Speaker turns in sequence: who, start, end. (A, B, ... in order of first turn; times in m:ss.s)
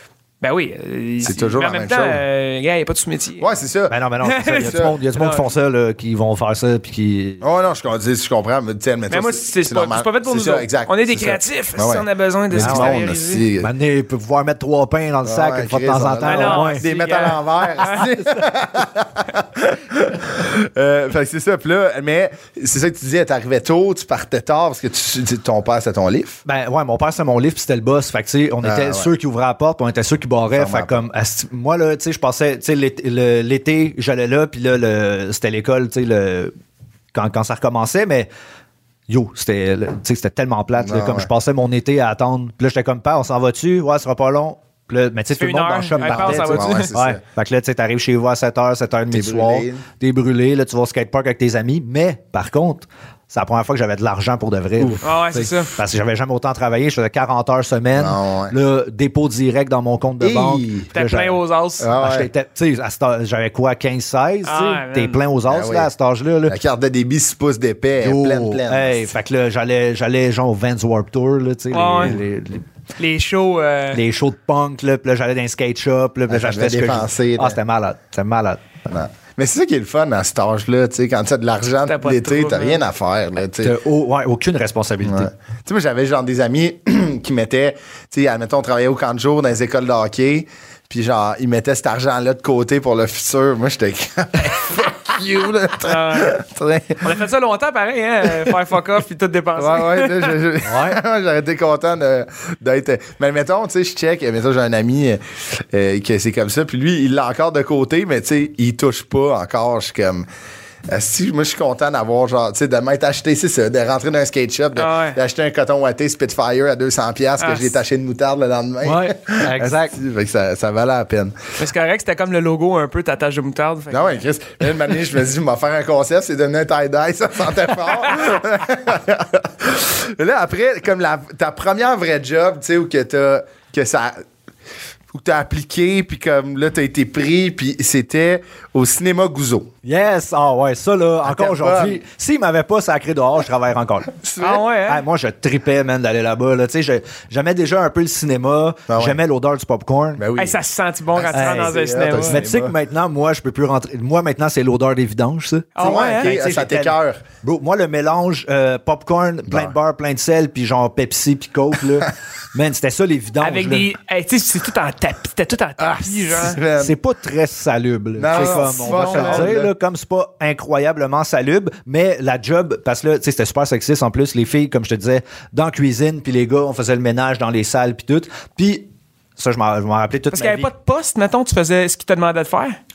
0:00.4-0:03.5 A
0:01.2-0:02.2 B
0:03.4-0:04.0 B
0:03.9-0:07.4 C
0:04.2-0:05.5 A
0:04.6-0:04.9 B
0:07.4-0:13.7 B
0:09.1-0:13.4 A
0:12.6-0:13.0 C
0:13.6-0:16.8 C
0:15.2-0:26.4 B
0:16.2-0:18.0 A
0:26.4-0:36.5 C
0:28.6-0:29.1 B
0:30.5-0:31.0 B
0:37.1-0:38.3 C
0:39.1-1:01.4 C
0:40.8-0:41.3 B
0:45.4-0:46.9 A
0:46.0-0:47.2 B
0:49.1-0:49.8 B
0:55.0-0:55.8 A
0:58.0-0:58.6 B
1:00.2-1:00.9 B
1:00.9-1:01.9 A
1:01.8-1:02.3 B
1:02.0-1:06.5 C
1:04.4-1:05.2 A
1:05.5-1:05.9 B
1:06.5-1:09.1 B
1:08.0-1:12.6 C
1:11.7-1:12.1 A
1:13.0-1:14.0 A
1:13.9-1:18.6 C
1:16.3-1:17.6 B
1:18.9-1:23.8 B
1:21.9-1:22.8 A
1:23.6-1:25.3 C
1:25.0-1:37.2 B
1:35.8-1:36.4 A
1:37.0-1:40.3 A
1:39.6-1:50.3 B
1:40.6-1:41.0 C
1:50.9-2:01.5 B
1:54.7-1:55.2 A
1:57.4-1:57.7 A
1:58.8-1:59.9 C
2:01.6-2:04.2 A
2:03.9-2:14.2 B
2:15.1-2:19.7 B
2:19.8-2:24.1 C
2:21.2-2:22.0 B
2:24.2-2:24.6 B
2:24.4-2:25.0 A
2:24.8-2:30.2 C
2:28.9-2:29.2 B
2:30.2-2:30.6 B
2:30.4-2:32.4 A
2:31.2-2:32.7 B
2:31.3-2:43.9 C
2:35.7-2:36.3 A
2:35.8-2:37.2 B
2:39.5-2:39.7 B
2:43.4-2:46.6 A
2:45.8-2:47.0 B
2:46.7-2:58.8 C
2:48.2-2:49.7 B
2:48.3-2:49.5 A
2:59.4-3:00.7 C
3:00.3-3:02.8 A